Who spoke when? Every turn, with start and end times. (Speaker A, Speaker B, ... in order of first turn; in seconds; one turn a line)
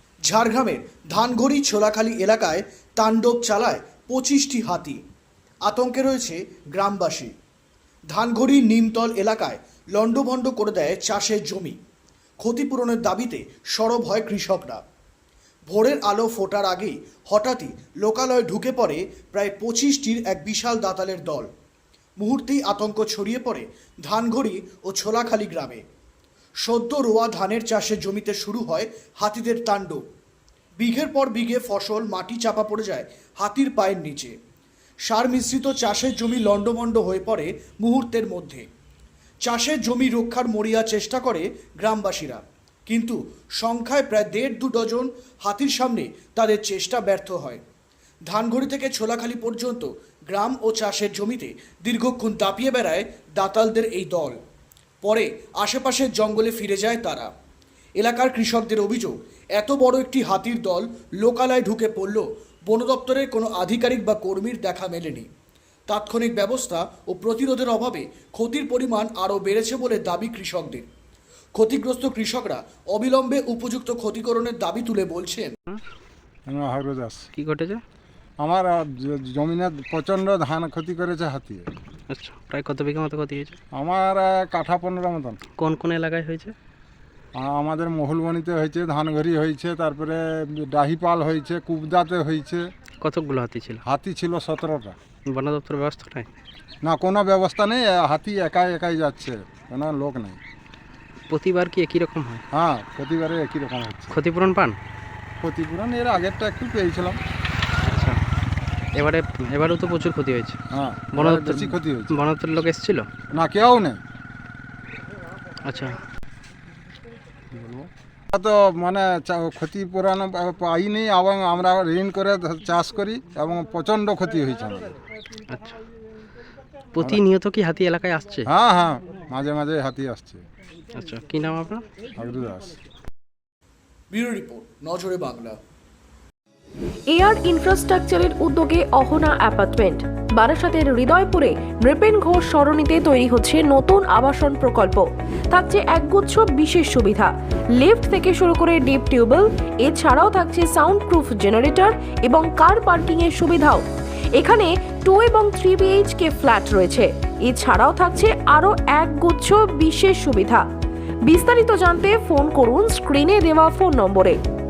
Speaker A: 0.3-5.0
Speaker A: 5.6-7.3
Speaker A: 8.1-11.8
Speaker A: 12.4-14.8
Speaker A: 15.7-21.5
Speaker A: 22.2-25.8
Speaker A: 26.6-30.0
Speaker A: 30.8-34.4
Speaker A: 35.1-38.6
Speaker A: 39.5-47.6
Speaker A: 48.3-54.4
Speaker A: 55.0-57.3
Speaker A: 58.0-65.3
Speaker A: 65.9-70.9
Speaker A: 71.5-75.5
Speaker B: 76.5-77.3
Speaker C: 77.3-77.8
Speaker B: 78.4-81.7
Speaker C: 82.1-83.6
Speaker B: 83.7-85.4
Speaker C: 85.6-86.5
Speaker B: 87.3-92.6
Speaker C: 93.0-93.8
Speaker B: 93.8-95.0
Speaker C: 95.3-96.3
Speaker B: 96.8-100.4
Speaker C: 101.3-102.4
Speaker B: 102.5-104.2
Speaker C: 104.1-104.8
Speaker B: 105.4-107.2
Speaker C: 107.8-108.2
Speaker C: 109.0-110.6
Speaker B: 110.7-112.1
Speaker C: 111.2-113.1
Speaker B: 113.3-114.0
Speaker C: 115.6-116.0
Speaker B: 117.6-125.0
Speaker C: 125.5-125.8
Speaker C: 127.0-128.5
Speaker B: 128.5-130.4
Speaker C: 130.9-131.8
Speaker B: 132.1-132.8
Speaker A: 134.1-135.6
Speaker D: 137.1-160.6
Speaker D: 161.2-164.4